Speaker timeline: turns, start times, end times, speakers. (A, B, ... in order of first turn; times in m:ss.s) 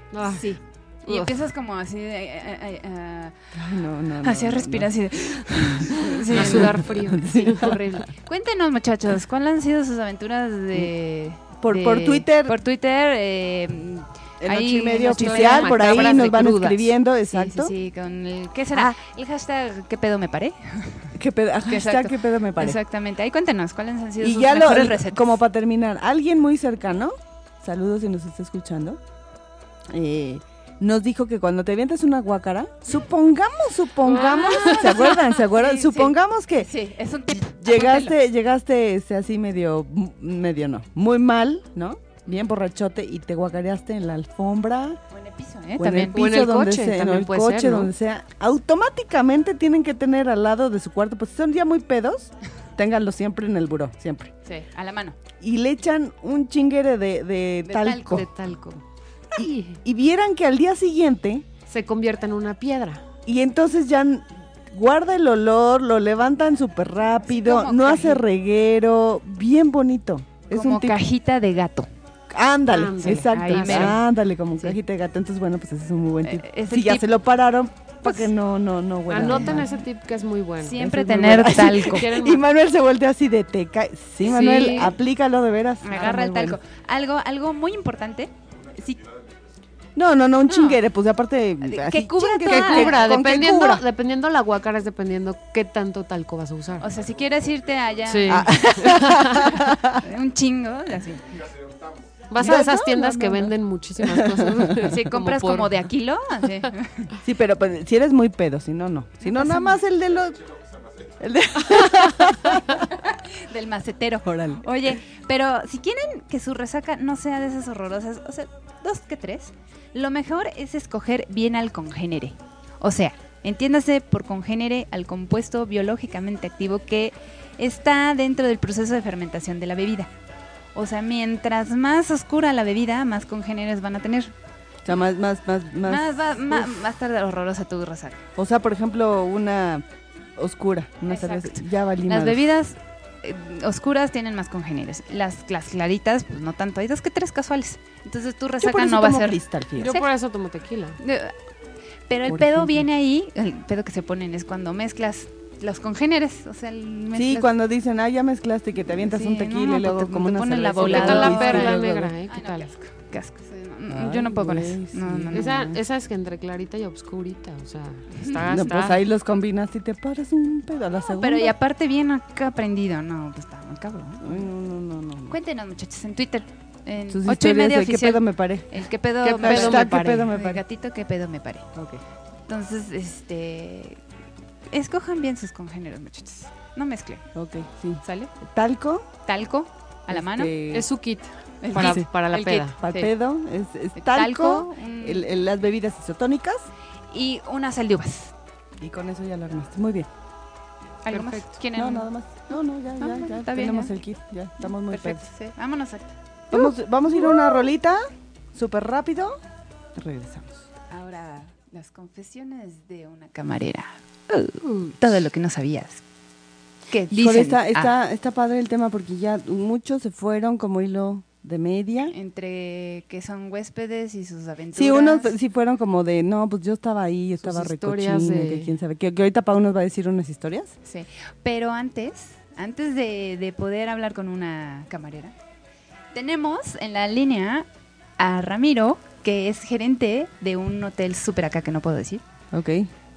0:00.1-0:00.5 A
0:00.2-0:03.3 B
0:01.0-0:01.4 A
0:03.5-0:08.0 C
0:04.2-0:16.5 B
0:06.3-0:07.7 A
0:11.6-0:12.6 C
0:14.4-0:17.7 C
0:15.1-0:16.9 A
0:17.3-0:21.1 B
0:21.1-0:22.8 C
0:21.7-0:25.4 B
0:24.2-0:29.0 C
0:29.9-0:36.7 C
0:34.0-0:35.2 A
0:34.6-0:38.2 B
0:37.3-0:45.0 C
0:45.1-0:46.2 B
0:45.8-0:54.3 C
0:46.1-0:47.9 A
0:54.4-0:55.2 B
0:55.4-0:58.3 C
0:57.6-0:58.2 B
0:57.9-0:58.8 A
0:59.3-0:59.8 A
0:59.8-1:01.4 C
1:01.7-1:03.0 A
1:03.2-1:11.0 C
1:07.3-1:08.2 B
1:10.5-1:11.9 B
1:12.3-1:19.7 C
1:12.7-1:14.0 A
1:13.0-1:14.0 B
1:16.2-1:17.1 B
1:18.0-1:18.3 B
1:19.1-1:22.4 A
1:19.2-1:19.8 B
1:20.6-1:22.1 B
1:21.0-1:26.6 C
1:24.2-1:24.9 A
1:24.4-1:24.9 B
1:25.8-1:29.0 B
1:29.9-1:33.8 C
1:30.4-1:30.8 B
1:31.6-1:33.0 B
1:32.4-1:36.9 A
1:36.8-1:41.2 B
1:38.0-1:39.4 A
1:38.3-1:40.0 C
1:42.3-1:45.8 A
1:42.4-1:44.9 C
1:42.4-1:42.7 B
1:44.8-1:47.1 B
1:47.2-1:50.4 C
1:49.2-1:49.8 B
1:51.2-1:52.8 C
1:52.7-2:10.1 B
1:54.2-1:54.7 C
2:10.7-2:14.3 B
2:14.8-2:16.8 C
2:15.8-2:18.2 B
2:18.4-2:19.8 C
2:20.4-2:22.4 C
2:21.1-2:30.1 B
2:28.6-2:29.9 C
2:29.8-2:31.0 A
2:31.0-2:31.3 B
2:32.1-2:37.5 B
2:32.3-2:32.8 C
2:37.1-2:42.1 C
2:39.0-2:45.6 B
2:40.8-2:42.7 A
2:43.9-2:45.8 C
2:45.3-2:49.0 A
2:48.4-2:51.5 C
2:51.1-2:54.2 B
2:54.2-2:55.3 C
2:55.3-3:01.6 B
2:57.1-2:58.7 C
2:59.2-3:00.6 C
2:59.3-3:00.3 A
3:01.7-3:02.0 C
3:02.5-3:04.0 B
3:04.7-3:07.2 B
3:07.3-3:09.0 C
3:08.0-3:08.3 B
3:09.2-3:10.5 B
3:10.1-3:10.9 C
3:10.7-3:12.8 A
3:11.6-3:13.1 B
3:11.8-3:12.1 C
3:12.8-3:16.7 C
3:14.0-3:15.3 B
3:17.1-3:18.3 B
3:18.8-3:20.1 C
3:21.0-3:22.1 B
3:21.1-3:21.5 A
3:21.8-3:25.3 C
3:23.0-3:23.9 B
3:24.6-3:26.7 B
3:26.5-3:28.0 C
3:28.5-3:29.4 C
3:29.9-3:30.6 C
3:30.9-3:36.0 B
3:36.9-3:37.9 B
3:37.1-3:42.1 C
3:42.1-3:45.3 B
3:44.7-3:50.7 C
3:47.4-3:48.7 A
3:50.8-3:55.3 B
3:56.1-3:57.7 B
3:58.2-4:02.2 B
4:02.5-4:02.9 C